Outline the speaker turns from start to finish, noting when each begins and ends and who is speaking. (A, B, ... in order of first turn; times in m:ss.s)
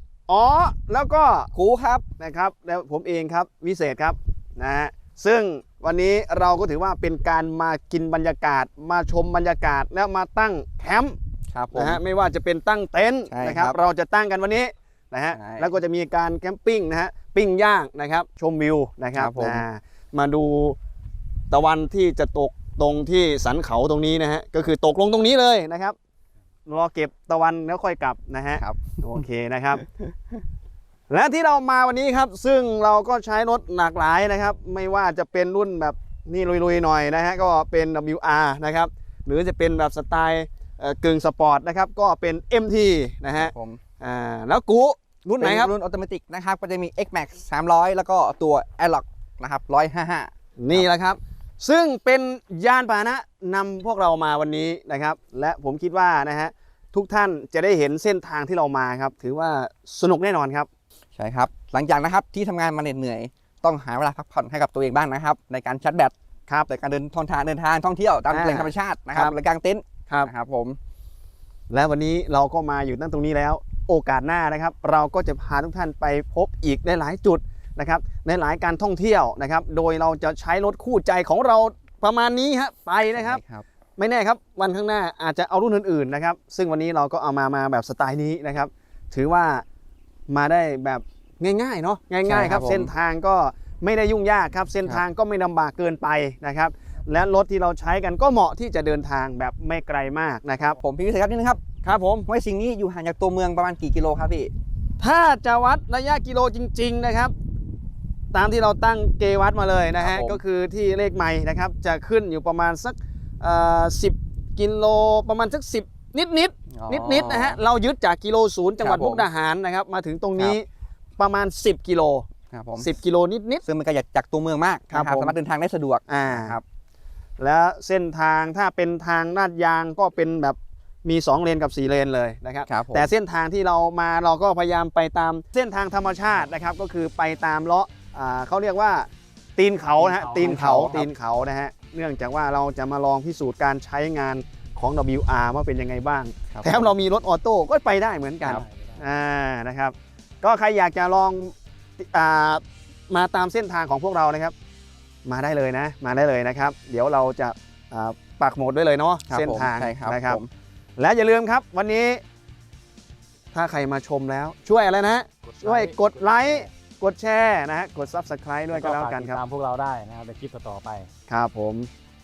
0:00.3-0:01.5 A
0:01.5-0:02.0 B
0:02.2-0:11.2 A
0:11.5-0:12.0 B
0:11.7-0:20.8 A
0:13.3-0:13.8 B
0:15.3-0:15.7 B
0:19.2-0:19.6 B
0:21.5-0:26.0 A
0:26.7-0:29.8 A
0:31.1-0:45.7 A
0:43.3-0:43.8 B
0:45.4-0:50.8 B
0:50.6-1:00.7 A
1:01.1-1:06.1 B
1:06.7-1:10.8 B
1:08.3-1:09.4 A
1:11.7-1:23.4 A
1:23.1-1:23.6 B
1:24.0-1:29.6 A
1:30.3-1:40.8 A
1:32.2-1:32.9 B
1:40.8-1:41.6 B
1:41.8-1:42.3 A
1:42.3-1:44.5 B
1:45.0-1:47.3 A
1:48.3-2:00.6 A
1:50.0-1:50.4 B
1:56.7-1:57.6 B
1:58.8-1:59.3 B
2:01.2-2:03.6 A
2:02.5-2:02.9 B
2:03.6-2:06.6 B
2:04.9-2:05.4 A
2:06.1-2:06.6 A
2:07.4-2:34.5 A
2:12.7-2:13.1 B
2:20.0-2:20.9 C
2:20.3-2:21.1 B
2:26.5-2:26.9 B
2:28.5-2:29.0 C
2:35.2-2:40.4 A
2:39.3-2:40.5 B
2:41.0-2:42.2 A
2:43.5-2:49.4 A
2:45.6-2:46.7 C
2:48.7-2:51.1 C
2:51.3-2:51.9 A